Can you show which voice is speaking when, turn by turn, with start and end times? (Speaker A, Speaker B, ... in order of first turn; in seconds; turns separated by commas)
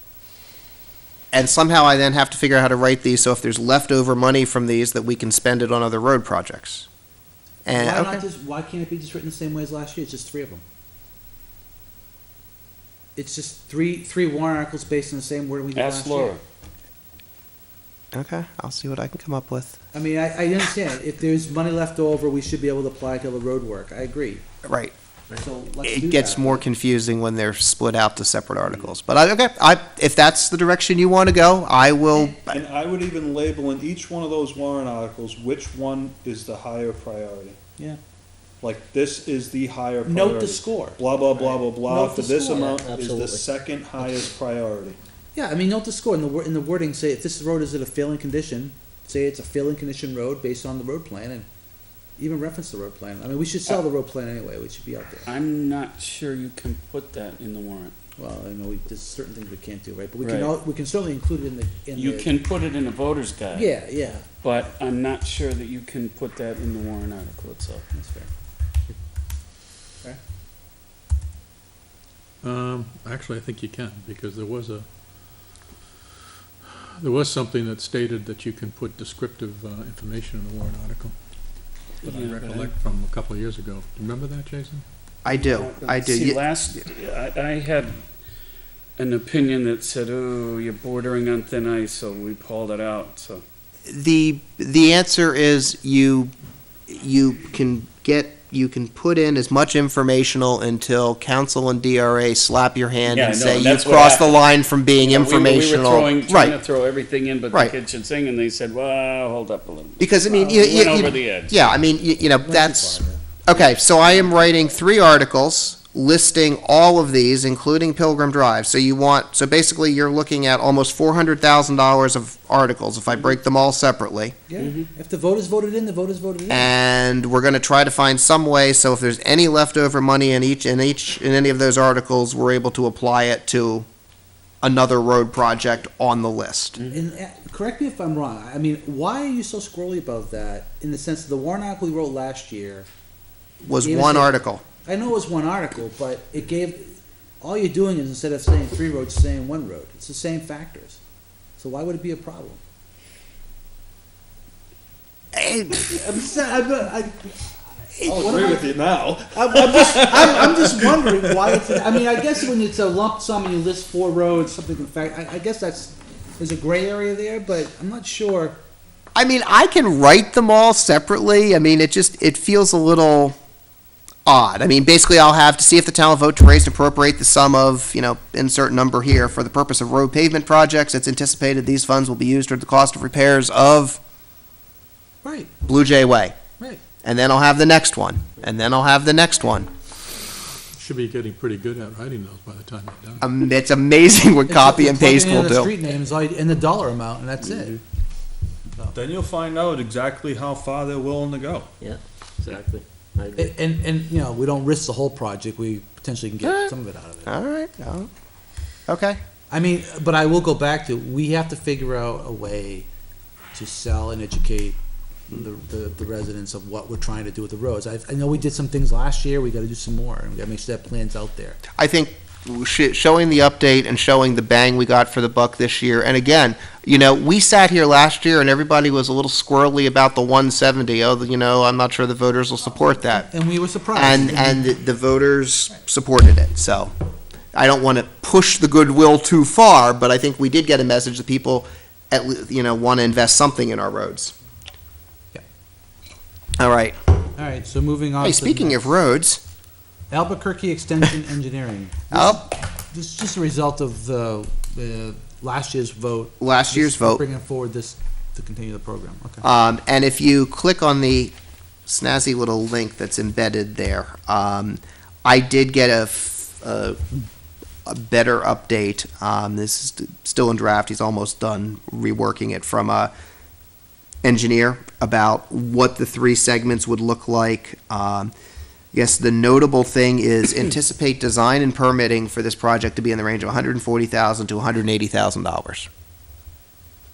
Speaker A: 1.3-6.9, Speaker A: 7.6-8.2, Speaker B: 7.7-10.6, Speaker B: 13.2-16.4, Speaker C: 15.7-16.4, Speaker A: 18.1-19.8, Speaker B: 19.9-24.4, Speaker A: 24.6-24.9, Speaker B: 25.4-26.6, Speaker A: 25.8-32.6, Speaker D: 32.5-37.6, Speaker D: 38.6-45.0, Speaker B: 40.0-41.0, Speaker B: 41.5-43.0, Speaker E: 42.5-43.5, Speaker B: 45.3-51.5, Speaker B: 52.2-55.3, Speaker C: 55.2-58.0, Speaker B: 58.2-62.3, Speaker C: 60.2-60.5, Speaker C: 61.9-67.8, Speaker B: 63.5-64.2, Speaker B: 67.9-68.3, Speaker F: 72.4-74.9, Speaker F: 77.0-81.1, Speaker F: 82.0-84.8, Speaker C: 82.0-82.7, Speaker A: 85.2-86.4, Speaker C: 85.3-88.0, Speaker C: 89.0-93.4, Speaker A: 93.9-96.3, Speaker A: 96.9-106.5, Speaker C: 103.0-104.4, Speaker C: 105.0-111.6, Speaker A: 110.0-124.3, Speaker B: 110.3-111.1, Speaker B: 112.4-113.2, Speaker B: 124.5-126.7, Speaker C: 124.6-124.9, Speaker A: 126.5-133.8, Speaker A: 134.6-136.8, Speaker C: 136.8-137.0, Speaker B: 136.9-142.9, Speaker A: 143.6-144.6, Speaker B: 143.8-151.0, Speaker B: 151.6-152.6, Speaker A: 155.3-155.8, Speaker B: 155.7-168.6, Speaker D: 158.0-161.9, Speaker A: 169.1-173.3, Speaker A: 174.2-184.0, Speaker B: 185.2-185.5, Speaker A: 185.6-186.4, Speaker A: 187.0-189.7, Speaker F: 190.7-193.2, Speaker A: 193.2-195.7, Speaker B: 194.5-197.8, Speaker D: 198.9-201.7, Speaker E: 201.8-203.5, Speaker B: 203.3-207.3, Speaker A: 207.2-208.1, Speaker A: 208.9-209.2, Speaker B: 209.5-212.9, Speaker B: 213.5-214.8, Speaker B: 215.3-221.6, Speaker A: 221.8-233.3, Speaker B: 233.3-234.7, Speaker A: 233.9-236.9, Speaker A: 237.5-244.3, Speaker A: 246.6-247.0, Speaker B: 247.3-249.0, Speaker A: 248.2-249.4, Speaker B: 250.1-259.4, Speaker A: 252.1-252.4, Speaker A: 256.4-257.2, Speaker A: 259.4-261.3, Speaker A: 261.9-267.1, Speaker A: 267.9-273.1, Speaker A: 274.2-278.3, Speaker A: 278.9-285.9